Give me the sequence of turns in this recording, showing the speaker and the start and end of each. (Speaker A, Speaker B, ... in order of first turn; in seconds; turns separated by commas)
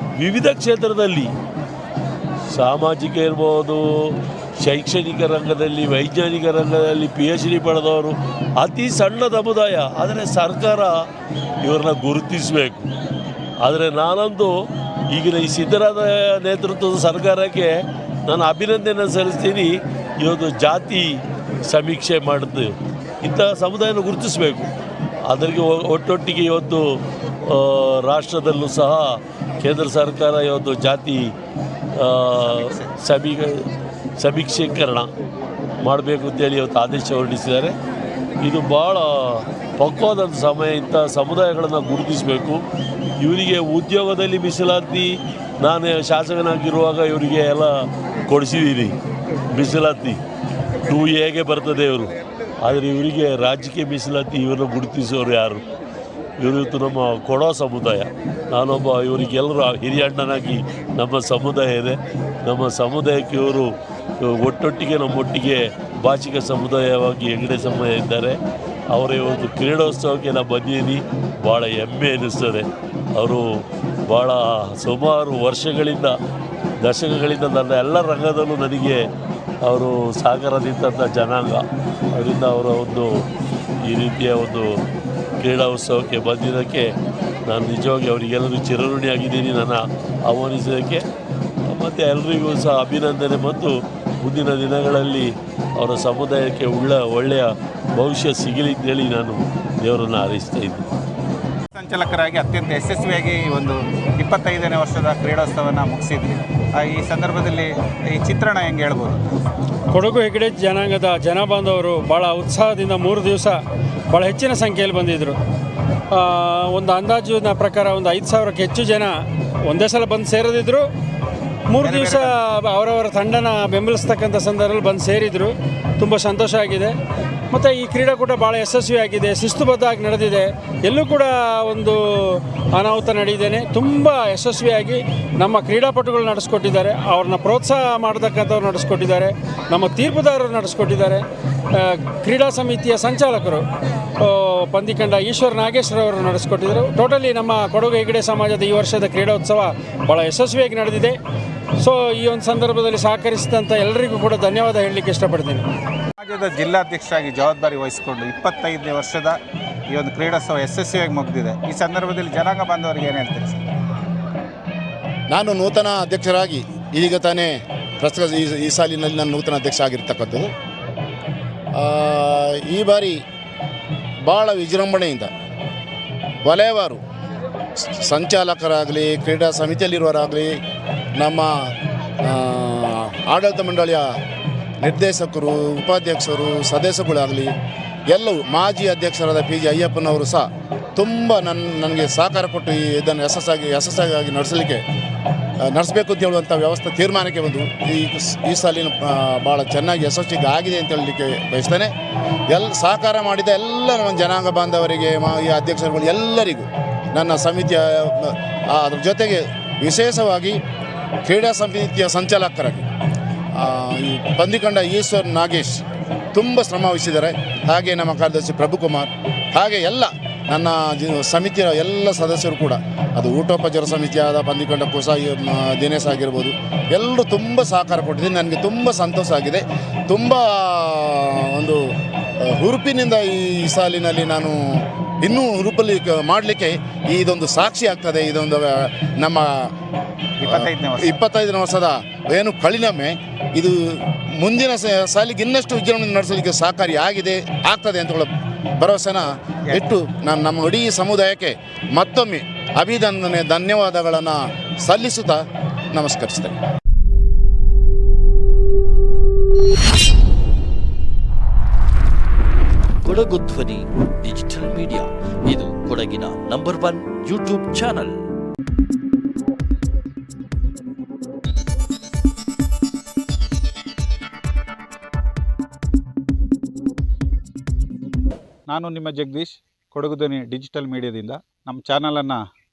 Speaker A: 0.2-1.3, Speaker A: 2.5-3.8, Speaker A: 4.6-10.9, Speaker A: 11.6-12.9, Speaker A: 13.6-14.5, Speaker A: 15.1-17.7, Speaker A: 18.3-21.1, Speaker A: 21.7-22.7, Speaker A: 23.2-24.7, Speaker A: 25.3-26.8, Speaker A: 27.5-29.0, Speaker A: 29.6-31.3, Speaker A: 32.0-33.6, Speaker B: 32.3-32.9, Speaker A: 34.2-35.1, Speaker A: 35.8-37.8, Speaker A: 38.4-42.6, Speaker A: 43.2-47.7, Speaker A: 48.3-48.9, Speaker A: 49.5-50.2, Speaker A: 50.9-52.1, Speaker A: 52.6-55.6, Speaker A: 56.4-63.7, Speaker A: 64.2-68.3, Speaker A: 68.9-72.7, Speaker A: 73.2-73.4, Speaker A: 74.1-76.1, Speaker A: 76.8-79.0, Speaker A: 79.7-83.1, Speaker A: 83.9-84.7, Speaker A: 85.4-86.9, Speaker A: 87.5-91.0, Speaker A: 91.7-100.8, Speaker B: 101.7-109.3, Speaker C: 109.9-113.6, Speaker C: 114.1-115.3, Speaker C: 116.2-119.1, Speaker C: 119.7-120.8, Speaker B: 121.8-122.3, Speaker C: 121.8-126.9, Speaker C: 127.5-132.0, Speaker C: 132.7-141.2, Speaker C: 141.8-143.6, Speaker C: 144.2-151.2, Speaker C: 151.8-155.6, Speaker B: 156.2-159.4, Speaker B: 159.9-163.7, Speaker D: 165.3-170.4, Speaker D: 171.8-173.2, Speaker D: 174.2-175.3, Speaker D: 176.4-177.0, Speaker D: 177.9-180.5, Speaker D: 181.2-181.5, Speaker D: 182.3-184.1, Speaker D: 184.8-187.5, Speaker D: 188.1-194.8, Speaker D: 195.7-201.9, Speaker D: 202.5-210.6, Speaker D: 211.2-212.8, Speaker D: 213.6-215.8, Speaker D: 216.3-231.8, Speaker D: 232.5-234.6, Speaker D: 235.2-239.5, Speaker B: 240.4-241.2, Speaker D: 240.5-243.7, Speaker D: 244.4-248.3, Speaker D: 248.8-255.4, Speaker B: 249.7-249.9, Speaker D: 255.9-256.5, Speaker E: 263.0-268.2, Speaker B: 278.7-282.4